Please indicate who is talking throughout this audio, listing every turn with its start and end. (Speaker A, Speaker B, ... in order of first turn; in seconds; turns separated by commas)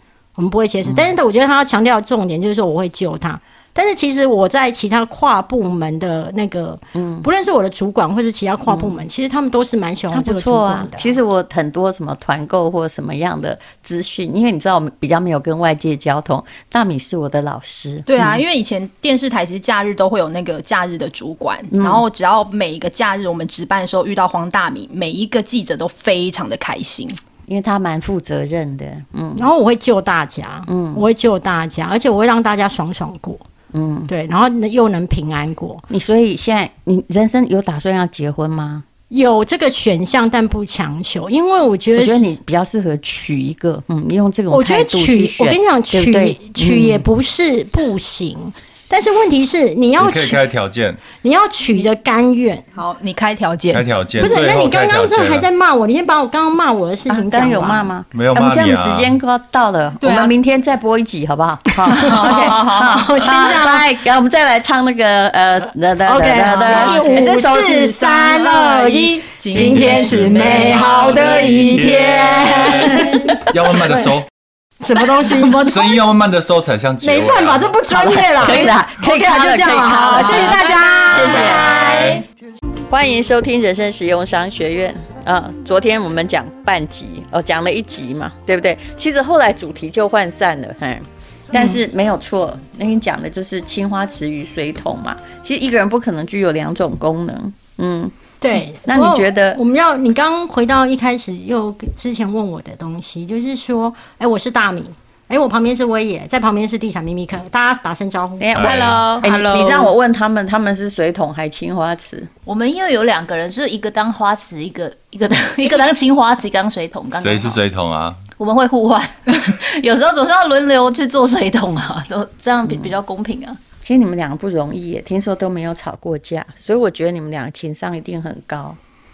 Speaker A: 0.3-11.1, Speaker B: 0.8-1.1, Speaker B: 6.9-7.3, Speaker B: 8.7-9.0, Speaker B: 10.1-18.4, Speaker C: 18.1-27.2, Speaker B: 21.7-22.0, Speaker B: 27.5-29.5, Speaker A: 29.4-33.4, Speaker B: 30.7-31.0, Speaker B: 33.7-34.1, Speaker A: 34.1-35.8, Speaker B: 35.9-38.8, Speaker A: 39.1-42.2, Speaker B: 41.9-47.0, Speaker A: 44.5-50.4, Speaker D: 50.0-51.0, Speaker A: 51.2-52.6, Speaker C: 52.7-53.9, Speaker D: 53.7-55.5, Speaker A: 54.2-57.9, Speaker B: 57.1-68.4, Speaker D: 58.1-59.1, Speaker C: 60.0-60.3, Speaker A: 61.9-63.9, Speaker C: 62.0-62.8, Speaker A: 66.0-74.1, Speaker C: 66.5-67.4, Speaker C: 68.1-71.3, Speaker D: 69.5-74.3, Speaker A: 74.8-76.0, Speaker D: 75.2-77.8, Speaker A: 77.0-82.2, Speaker B: 77.9-82.1, Speaker B: 82.9-99.6, Speaker A: 98.4-108.5, Speaker B: 108.4-112.3, Speaker D: 108.5-109.1, Speaker E: 108.6-109.3, Speaker C: 109.2-109.9, Speaker E: 112.5-117.6, Speaker D: 117.1-118.2, Speaker E: 118.3-123.6, Speaker B: 122.7-122.9, Speaker B: 123.8-128.8